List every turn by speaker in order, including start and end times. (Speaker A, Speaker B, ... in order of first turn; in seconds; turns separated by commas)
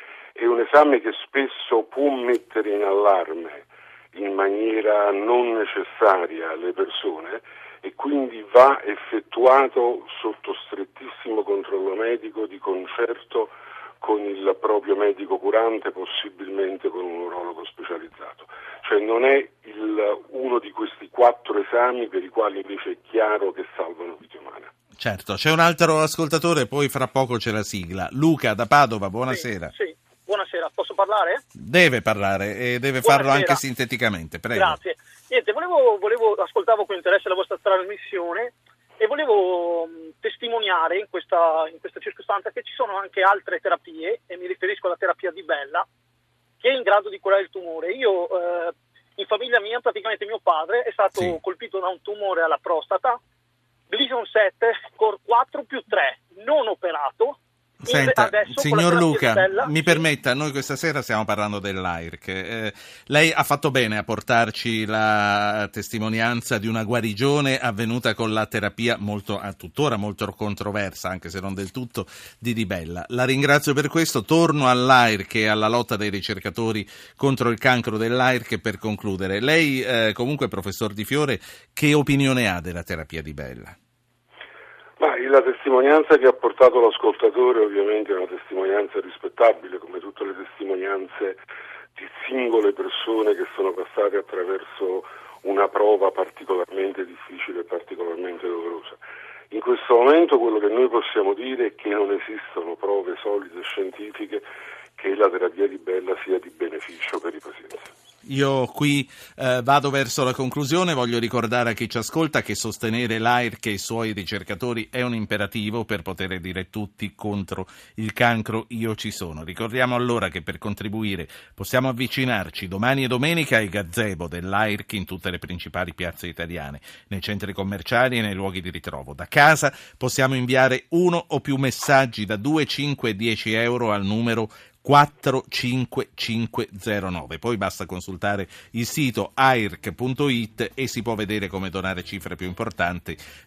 Speaker A: 0.3-24.7, Speaker B: 25.0-29.7, Speaker C: 29.3-31.4, Speaker B: 31.6-34.8, Speaker C: 33.0-33.6, Speaker C: 34.5-45.8, Speaker C: 46.6-53.2, Speaker C: 53.9-60.0, Speaker B: 57.8-83.7, Speaker A: 85.0-91.4, Speaker A: 92.0-99.0, Speaker A: 99.5-104.4, Speaker A: 105.0-107.9, Speaker B: 108.2-143.2